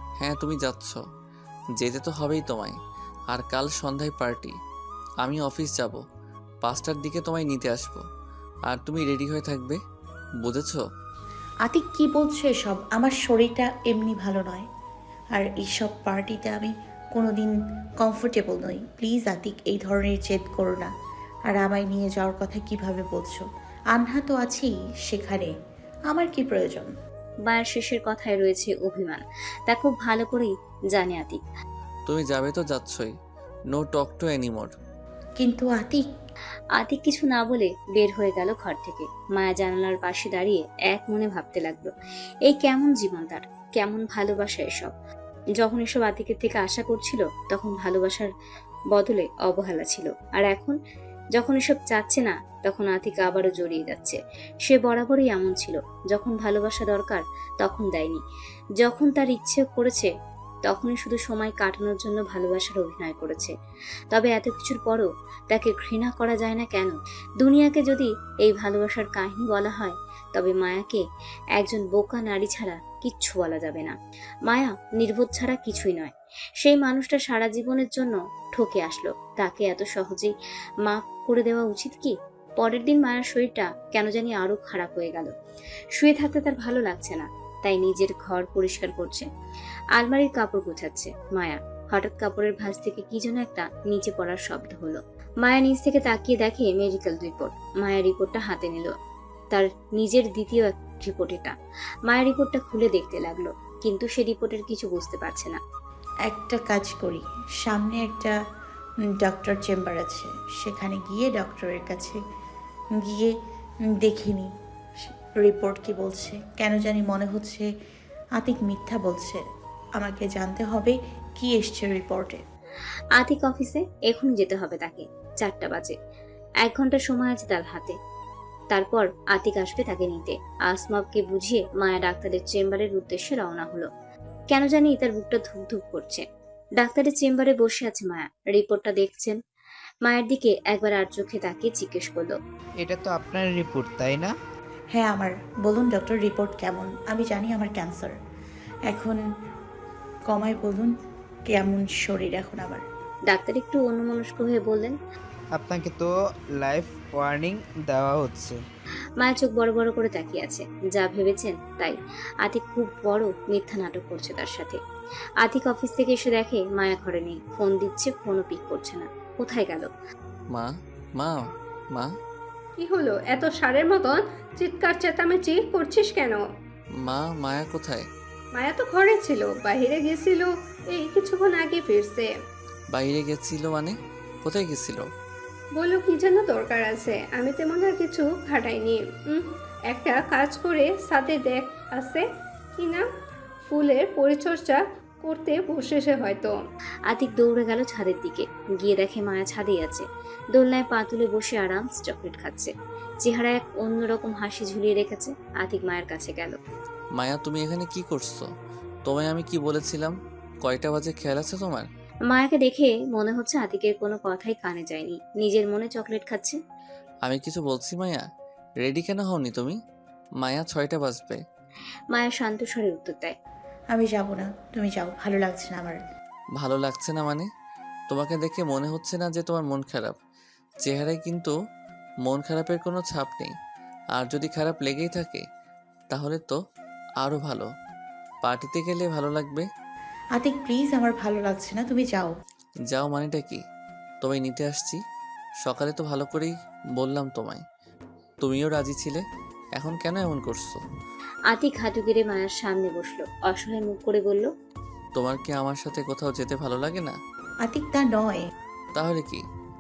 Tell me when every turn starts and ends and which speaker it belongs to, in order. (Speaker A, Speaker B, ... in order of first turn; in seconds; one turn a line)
Speaker A: 0.2-1.0
Speaker A: 1.8-2.8
Speaker A: 3.3-4.5
Speaker A: 5.2-6.0
Speaker A: 6.6-8.0
Speaker A: 8.7-9.8
Speaker A: 10.4-10.8
Speaker B: 11.6-14.7
Speaker B: 15.3-20.9
Speaker B: 21.5-25.5
Speaker B: 26.1-26.9
Speaker C: 27.5-31.4
Speaker A: 32.1-33.1
Speaker A: 33.7-34.7
Speaker B: 35.4-36.1
Speaker C: 36.8-41.9
Speaker C: 42.5-44.9
Speaker C: 45.6-48.3
Speaker C: 48.9-50.8
Speaker C: 51.3-58.2
Speaker C: 58.8-60.1
Speaker C: 60.6-63.5
Speaker C: 64.1-71.0
Speaker C: 71.6-73.9
Speaker C: 74.5-80.3
Speaker C: 80.8-85.3
Speaker C: 86.0-89.3
Speaker C: 90.0-98.9
Speaker C: 99.5-101.5
Speaker C: 102.1-105.6
Speaker B: 106.3-108.3
Speaker B: 109.2-112.2
Speaker B: 113.0-113.3
Speaker B: 114.0-114.5
Speaker B: 115.0-117.6
Speaker B: 118.4-119.4
Speaker B: 120.0-122.4
Speaker C: 123.2-126.0
Speaker C: 126.6-128.0
Speaker C: 128.7-133.9
Speaker C: 134.5-136.2
Speaker C: 136.8-139.4
Speaker C: 140.1-142.4
Speaker D: 142.8-144.3
Speaker B: 144.9-148.1
Speaker B: 148.9-149.2
Speaker B: 150.3-150.9
Speaker B: 151.5-152.8
Speaker C: 153.3-154.9
Speaker D: 155.5-158.6
Speaker C: 159.2-164.8
Speaker C: 165.4-169.9
Speaker A: 170.5-171.4
Speaker E: 172.8-176.4
Speaker A: 177.0-178.1
Speaker E: 178.5-182.3
Speaker A: 182.9-185.1
Speaker E: 185.8-192.2
Speaker E: 192.8-193.1
Speaker E: 193.7-196.6
Speaker C: 197.1-202.7
Speaker C: 203.2-206.6
Speaker A: 207.2-208.5
Speaker A: 209.1-211.9
Speaker C: 212.3-216.6
Speaker A: 217.2-218.2
Speaker A: 218.8-219.8
Speaker A: 220.4-221.4
Speaker C: 222.1-223.3
Speaker B: 223.9-226.0
Speaker A: 226.6-227.5
Speaker A: 228.1-230.2
Speaker A: 230.8-231.5
Speaker A: 232.2-233.5
Speaker A: 234.2-235.4
Speaker A: 236.1-236.6
Speaker A: 237.2-237.7
Speaker A: 238.4-239.7
Speaker B: 240.3-242.3
Speaker A: 242.9-243.6
Speaker A: 244.2-245.0
Speaker A: 245.6-247.6
Speaker A: 248.4-249.2
Speaker A: 249.8-250.8
Speaker C: 251.5-254.5
Speaker A: 255.2-257.1
Speaker B: 257.6-258.4
Speaker A: 258.9-259.4